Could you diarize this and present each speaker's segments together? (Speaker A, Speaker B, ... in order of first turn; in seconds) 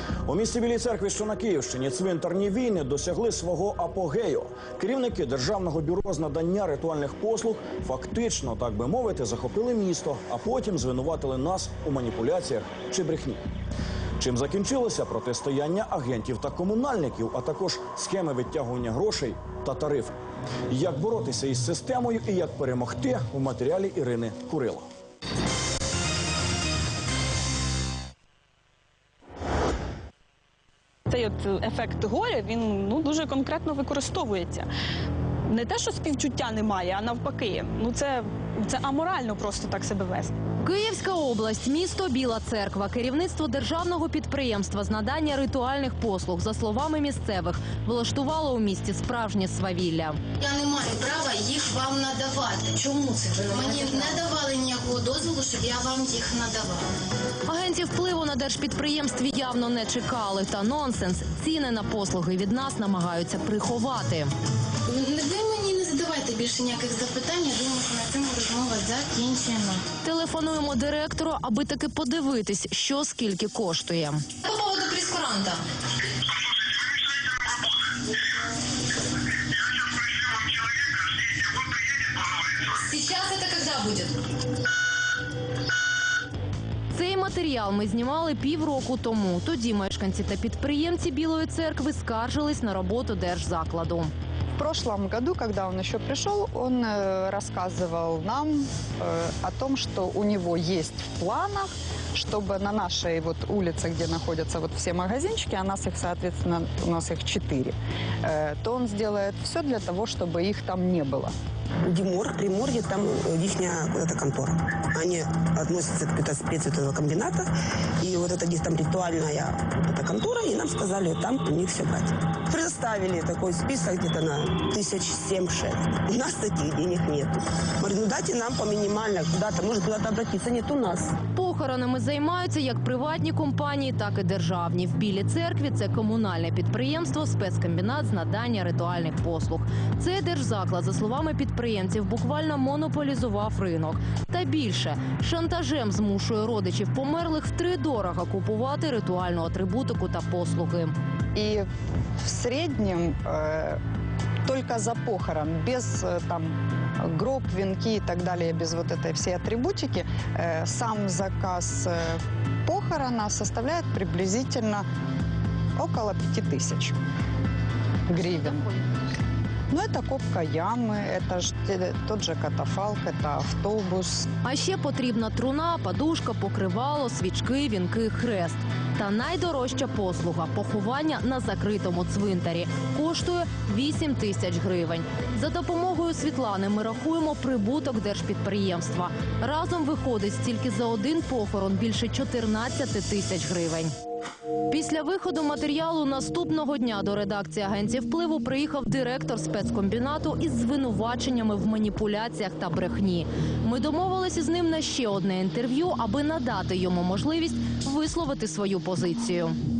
Speaker A: 0.2-13.4, 14.2-20.1, 20.7-24.9
Speaker B: 31.1-34.7, 35.5-40.3
Speaker C: 40.6-50.2, 53.5-54.2, 57.5-64.3, 70.0-75.6, 82.6-84.2, 86.9-94.1, 131.3-150.9, 174.4-193.9, 194.7-209.6
Speaker D: 50.4-56.9, 64.9-69.8
Speaker E: 94.6-111.3, 151.3-151.7, 152.2-153.8, 154.4-164.8, 165.8-166.9, 168.1-168.7, 169.7-174.3
Speaker F: 111.9-117.5, 118.0-131.1